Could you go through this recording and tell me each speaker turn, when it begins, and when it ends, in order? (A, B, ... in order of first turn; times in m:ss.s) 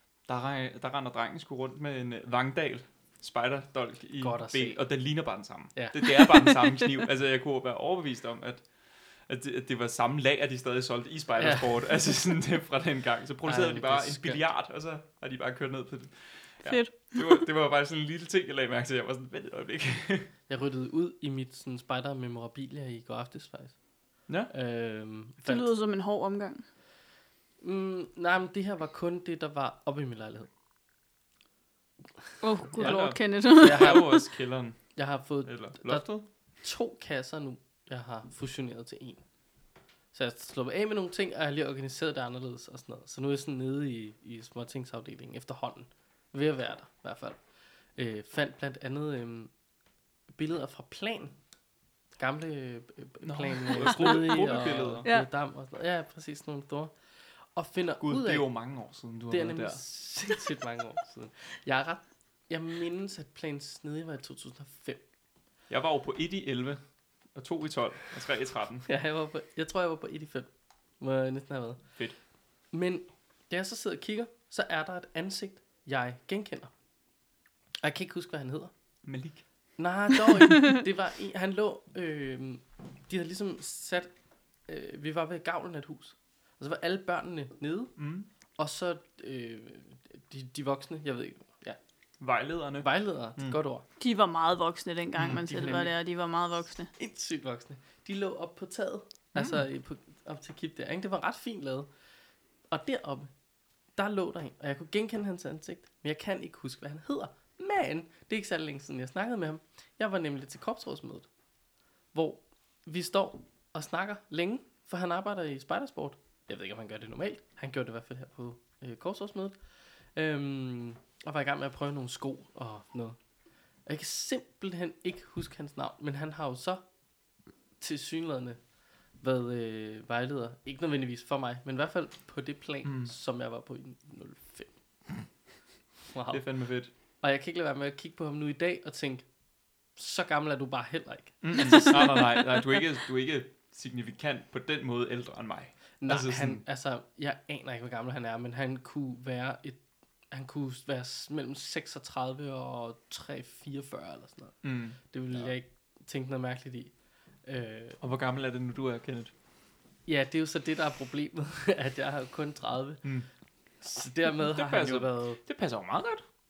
0:00.3-0:20.3 A
0:04.2-0:04.9 B
0:05.8-0:06.0 B
0:11.4-0:11.9 B
0:13.4-0:14.4 B
0:16.6-0:17.4 C
0:20.5-0:25.7 B
0:25.4-0:26.6 C
0:27.6-0:30.5 B
0:32.4-0:34.2 C
0:32.8-0:34.2 B
0:32.8-0:36.3 A
0:35.0-0:39.2 B
0:40.1-0:49.5 B
0:50.3-0:51.4 B
0:52.2-0:58.5 B
0:53.2-0:55.1 A
0:53.9-0:54.4 C
0:58.0-0:59.8 A
0:59.3-1:05.0 B
1:05.7-1:06.8 A
1:07.3-1:08.9 A
1:08.9-1:12.0 B
1:12.7-1:16.7 B
1:17.8-1:18.7 B
1:19.0-1:19.4 A
1:19.8-1:24.1 B
1:24.7-1:28.0 B
1:28.0-1:28.3 A
1:28.6-1:31.8 B
1:32.2-1:33.6 A
1:32.8-1:33.8 B
1:34.0-1:36.9 C
1:35.2-1:35.7 A
1:35.5-1:35.9 B
1:36.9-1:41.9 B
1:39.4-1:39.6 A
1:42.7-1:43.3 B
1:44.0-1:51.3 B
1:52.1-2:03.2 B
2:03.8-2:06.8 B
2:07.8-2:08.6 B
2:09.2-2:14.8 B
2:12.8-2:13.1 A
2:16.1-2:16.5 B
2:16.3-2:16.9 A
2:17.2-2:19.3 B
2:20.0-2:22.2 B
2:21.4-2:26.6 A
2:26.0-2:38.0 B
2:34.6-2:35.5 A
2:38.0-2:39.3 A
2:40.1-2:43.1 B
2:43.8-2:45.4 B
2:44.3-2:46.2 A